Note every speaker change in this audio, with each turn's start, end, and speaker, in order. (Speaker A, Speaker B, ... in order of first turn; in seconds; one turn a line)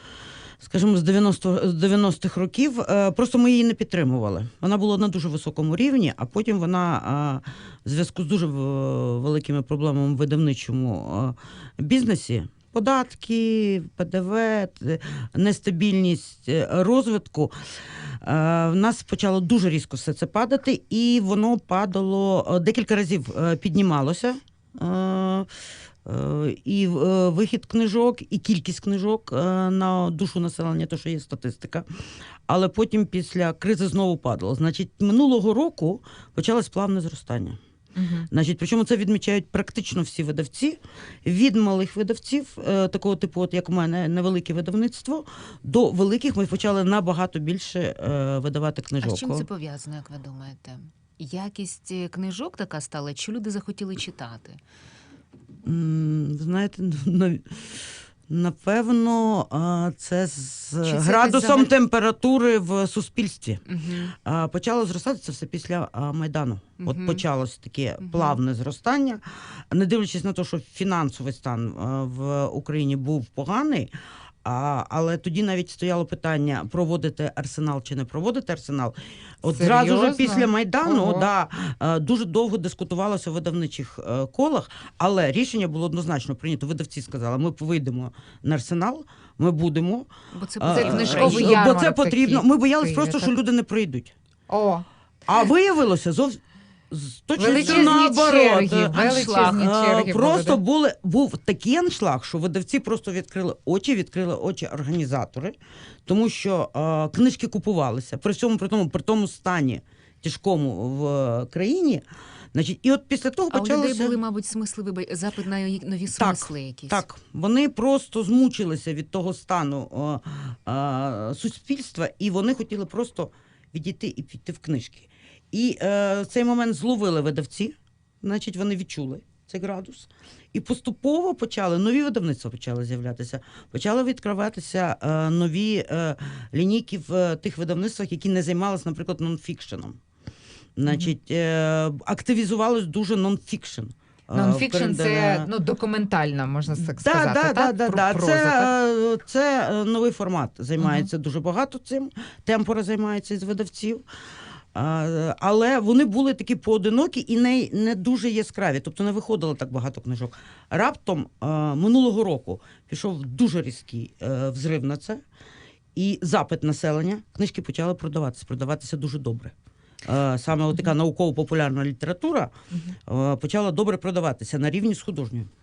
Speaker A: 0.6-25.5
Speaker A: 26.1-31.9
Speaker A: 32.5-37.6
Speaker B: 38.0-38.3
Speaker A: 38.3-49.5
Speaker C: 49.0-54.6
Speaker A: 55.6-63.6
Speaker C: 60.8-61.7
Speaker C: 63.7-64.2
Speaker A: 64.2-73.9
Speaker C: 66.8-67.2
Speaker C: 68.0-68.4
Speaker A: 74.4-90.1
Speaker B: 79.4-81.3
Speaker C: 90.3-91.6
Speaker A: 90.6-94.1
Speaker B: 90.7-93.3
Speaker B: 94.5-94.9
Speaker A: 95.3-105.5
Speaker B: 97.4-100.6
Speaker C: 97.4-98.0
Speaker C: 98.9-99.7
Speaker A: 106.1-114.2
Speaker C: 113.5-117.0
Speaker A: 116.1-140.0
Speaker A: 140.8-145.5
Speaker B: 144.3-148.7
Speaker A: 146.8-154.1
Speaker B: 150.8-151.1
Speaker A: 154.8-165.2
Speaker A: 165.9-169.5
Speaker A: 170.1-172.5
Speaker A: 173.1-175.5